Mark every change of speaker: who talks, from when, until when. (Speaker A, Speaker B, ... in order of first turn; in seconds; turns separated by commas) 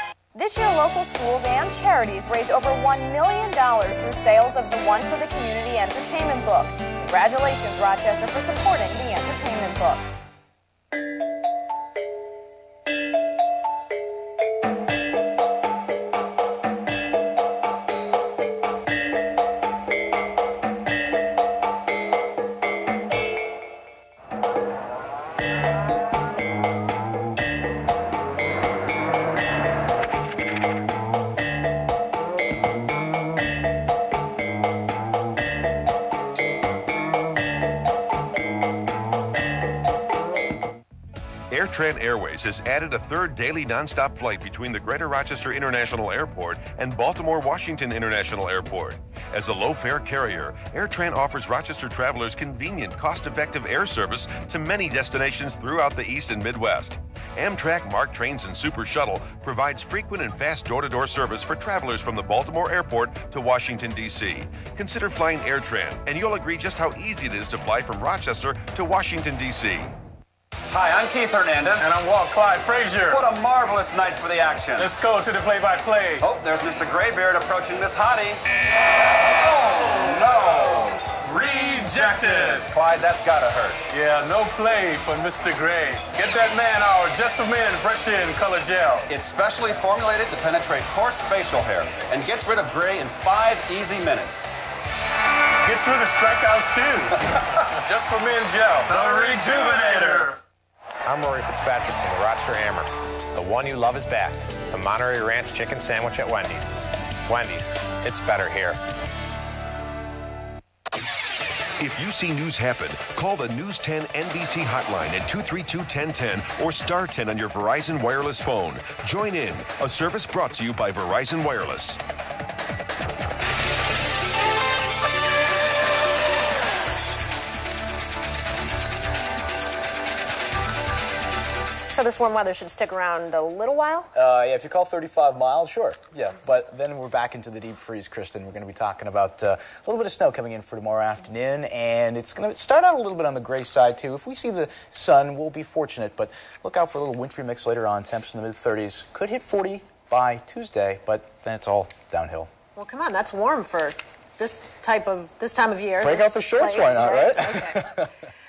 Speaker A: 0.3-10.0, Speaker B: 41.5-69.9, Speaker C: 70.7-71.9, Speaker D: 71.8-73.2, Speaker C: 73.1-74.9, Speaker D: 74.8-76.2, Speaker C: 76.2-78.4, Speaker C: 79.4-83.8, Speaker D: 81.2-82.7, Speaker D: 83.9-89.1, Speaker C: 89.1-94.5, Speaker D: 95.6-97.2, Speaker D: 97.9-100.3, Speaker C: 98.9-100.3, Speaker E: 101.0-108.8, Speaker B: 111.8-122.0, Speaker F: 131.9-134.1, Speaker G: 134.1-152.5, Speaker F: 152.8-158.1, Speaker G: 156.0-158.1